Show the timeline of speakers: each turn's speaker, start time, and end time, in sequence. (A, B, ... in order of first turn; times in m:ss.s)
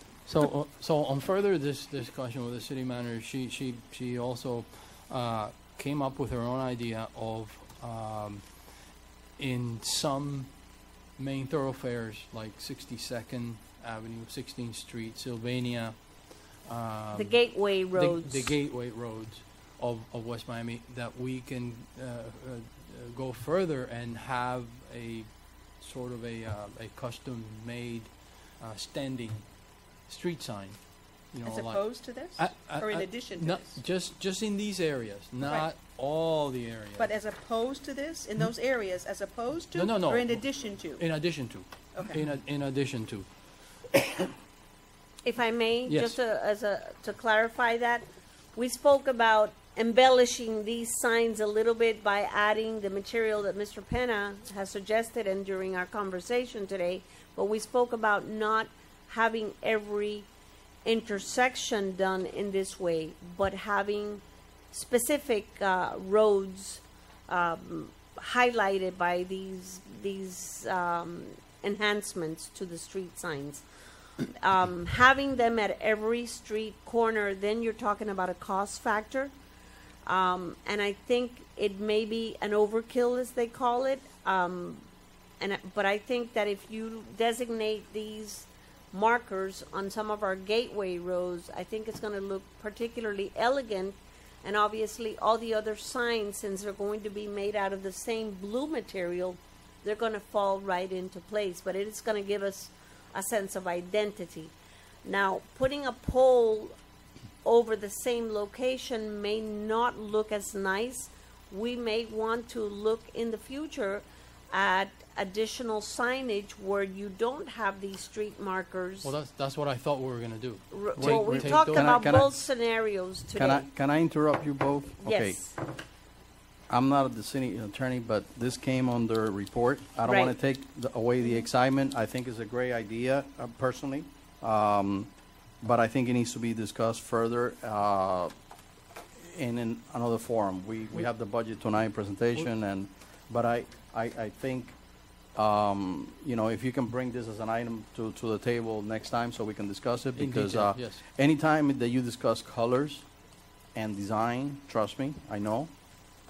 0:00.2-0:08.4 A
0:09.4-0:10.5 A
0:11.2-0:16.0 A
0:16.6-0:17.4 A
0:17.1-0:18.5 B
0:17.9-0:25.3 A
0:25.8-0:29.4 A
0:30.1-0:30.8 A
0:31.3-0:37.1 A
0:31.4-0:33.7 C
0:37.0-0:41.0 C
0:39.7-0:40.4 A
0:41.0-0:43.3 A
0:43.9-0:44.3 A
0:45.2-1:00.3 B
0:45.9-0:46.2 A
1:00.8-1:13.6 B
1:14.4-1:19.3 B
1:20.0-1:24.8 B
1:25.4-1:44.5 B
1:45.0-1:46.7 B
1:47.4-1:59.1 B
1:59.0-2:02.2 A
2:00.7-2:03.6 B
2:01.0-2:02.4 D
2:03.3-2:05.4 D
2:05.0-2:05.5 B
2:06.7-2:15.1 D
2:10.0-2:10.4 B
2:15.6-2:18.3 D
2:19.2-2:24.7 D
2:25.4-2:33.0 D
2:30.2-2:31.0 A
2:33.7-2:35.7 D